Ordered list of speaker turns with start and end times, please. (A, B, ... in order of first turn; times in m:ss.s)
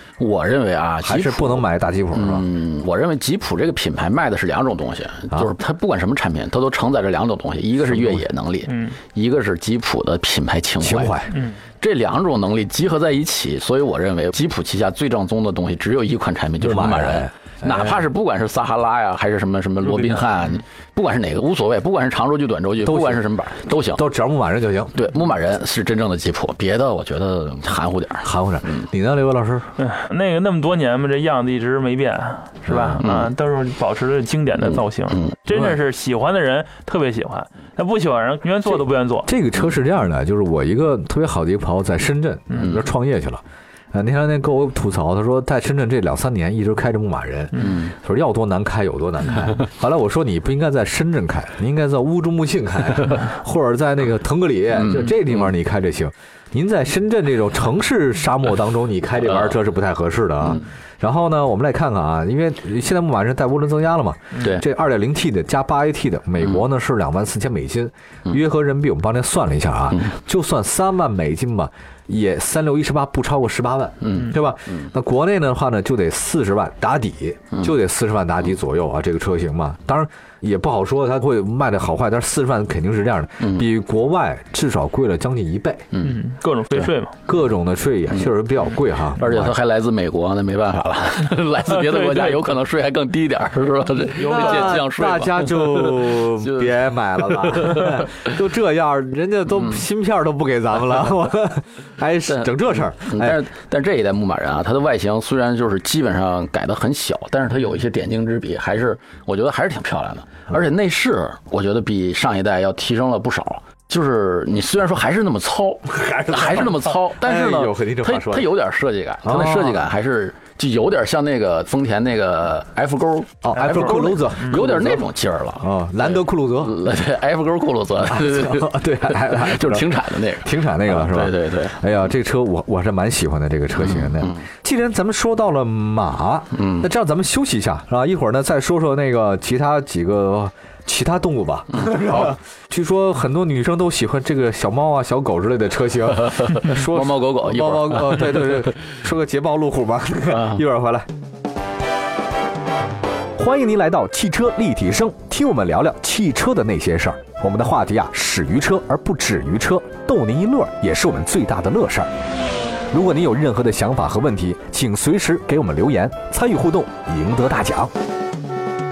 0:00.2-0:11.2 A
0:01.0-0:02.4 B
0:07.9-0:08.2 B
0:08.7-0:09.0 C
0:10.8-0:11.3 B
0:11.3-0:11.6 C
0:11.8-0:24.0 A
0:16.6-0:18.0 B
0:22.8-0:23.2 B
0:23.8-0:24.9 B
0:24.9-0:28.9 A
0:28.2-0:29.7 B
0:29.8-0:39.3 C
0:32.7-0:33.0 B
0:32.7-0:33.3 A
0:34.6-0:35.3 A
0:35.5-0:35.8 B
0:38.6-0:43.4 B
0:42.6-0:42.8 A
0:43.9-1:25.9 B
0:47.5-0:47.8 C
0:54.7-0:55.5 A
0:59.2-0:59.6 A
1:04.4-1:04.6 A
1:14.0-1:14.9 A
1:23.4-1:23.7 A
1:25.9-1:26.9 A
1:26.0-1:27.1 C
1:27.3-1:29.5 B
1:29.1-1:38.2 A
1:31.6-1:32.5 C
1:34.2-1:34.8 C
1:34.2-1:43.4 B
1:42.2-2:11.8 A
1:55.9-1:58.5 B
1:59.2-1:59.8 B
2:03.4-2:05.1 B
2:03.5-2:04.6 C
2:05.6-2:06.8 B
2:08.0-2:31.1 B
2:13.8-2:14.4 A
2:16.5-2:16.9 A
2:21.7-2:22.4 A
2:26.2-2:28.7 A
2:30.3-2:30.6 A
2:33.4-2:42.1 B
2:42.9-2:47.9 B